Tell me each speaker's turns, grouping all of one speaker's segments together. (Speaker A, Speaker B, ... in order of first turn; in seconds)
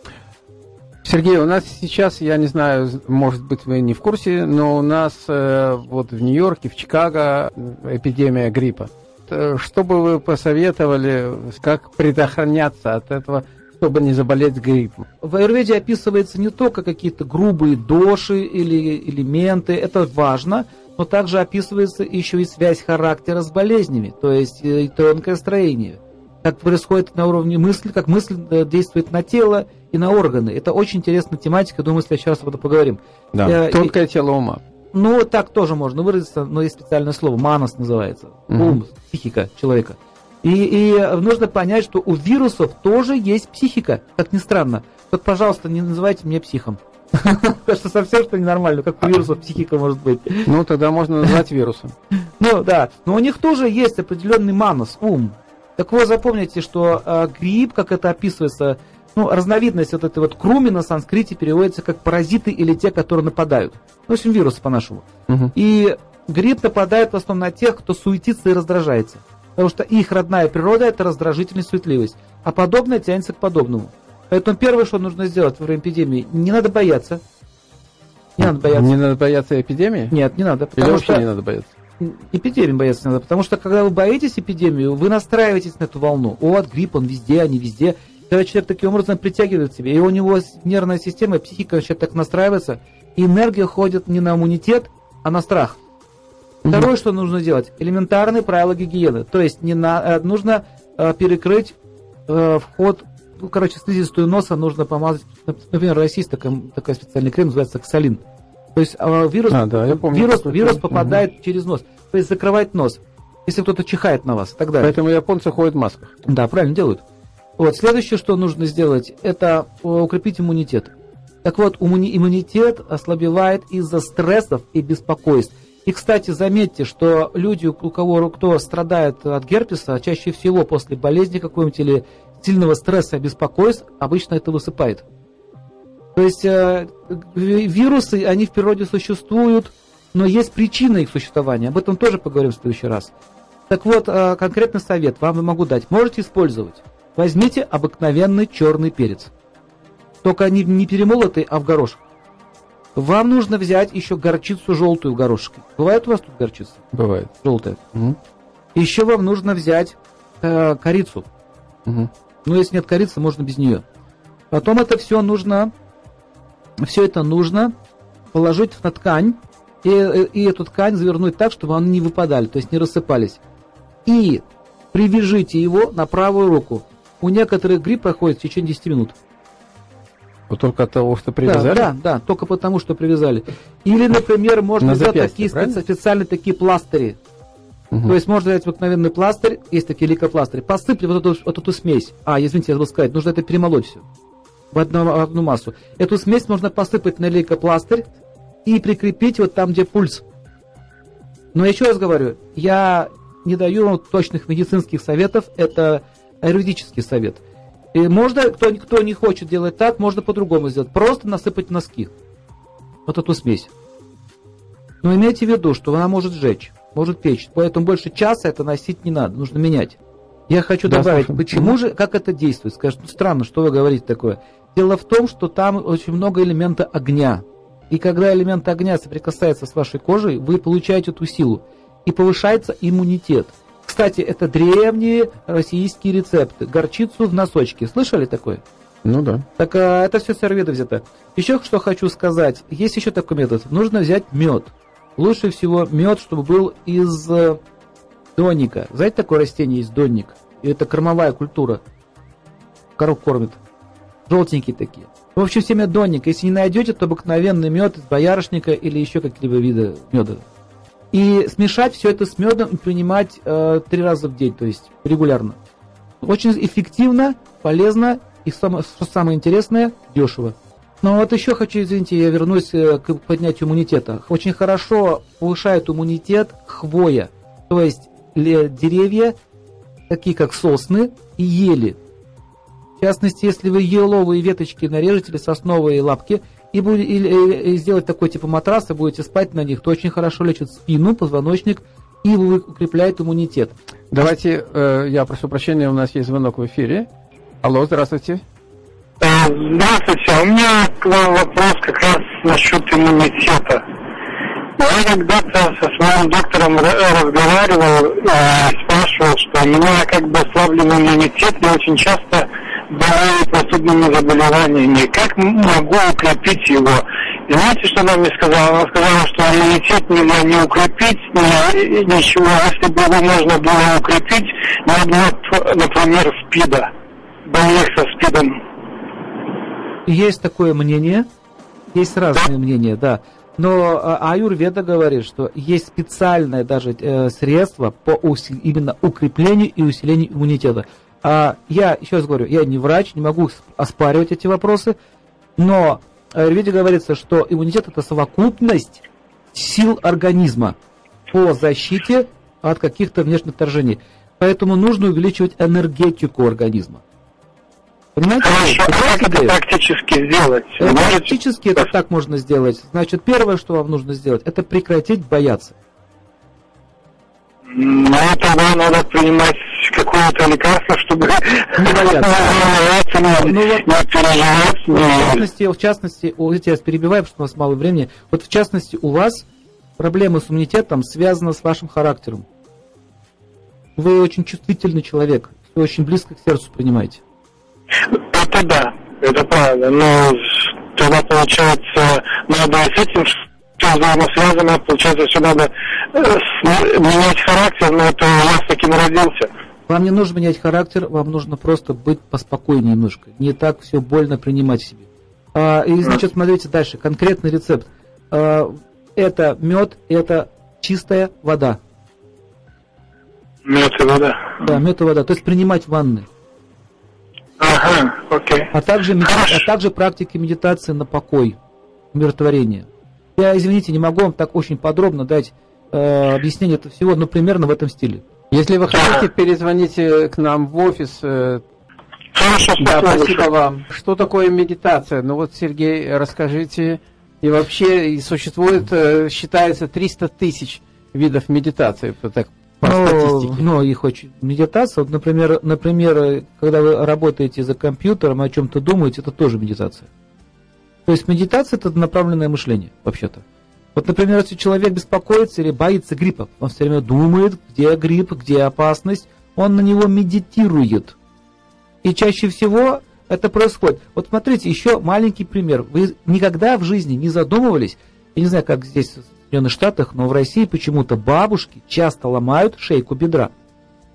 Speaker A: 1.1-15.1, 33.3-34.6, 38.5-38.8, 50.5-52.0, 65.3-65.5, 78.4-80.2, 80.8-81.7, 109.5-111.2, 114.8-116.1, 156.9-157.3, 180.5-181.9, 184.8-185.8, 220.9-221.7, 239.0-239.4, 294.1-297.1, 297.6-298.4, 428.5-431.6, 432.8-443.6
Speaker B: 15.2-33.9, 34.9-50.5, 52.4-77.2, 78.4-78.9, 80.1-81.3, 82.0-95.8, 96.7-101.8, 102.3-108.2, 108.8-115.0, 116.3-117.0, 117.6-120.9, 121.4-135.0, 136.2-143.1, 143.7-149.3, 150.2-152.0, 152.9-156.8, 157.4-157.8, 158.8-161.3, 162.4-163.8, 164.5-165.7, 166.8-167.7, 168.3-173.4, 174.1-179.2, 181.4-187.2, 188.1-194.0, 194.7-198.1, 198.7-200.2, 201.5-207.4, 207.9-212.1, 213.1-213.7, 215.0-220.0, 220.5-238.6, 239.6-247.6, 248.4-251.8, 253.0-253.6, 254.3-260.4, 261.1-265.6, 266.2-279.4, 280.1-282.0, 283.0-293.8, 330.1-331.3, 331.9-345.0, 345.6-349.0, 349.5-350.8, 351.3-357.0, 358.2-359.6, 360.8-365.8, 371.8-372.6, 373.4-373.9, 374.9-379.5, 380.0-382.4, 384.0-387.2, 399.9-411.8, 414.6-416.3, 418.7-421.6, 422.1-428.2, 442.8-450.1, 451.1-453.4, 453.9-461.2, 462.0-473.5
Speaker C: 299.2-303.8, 304.8-326.9, 327.5-328.6, 358.4-361.3, 367.7-375.4, 388.3-399.5, 413.7-414.6, 417.6-418.7, 432.4-433.4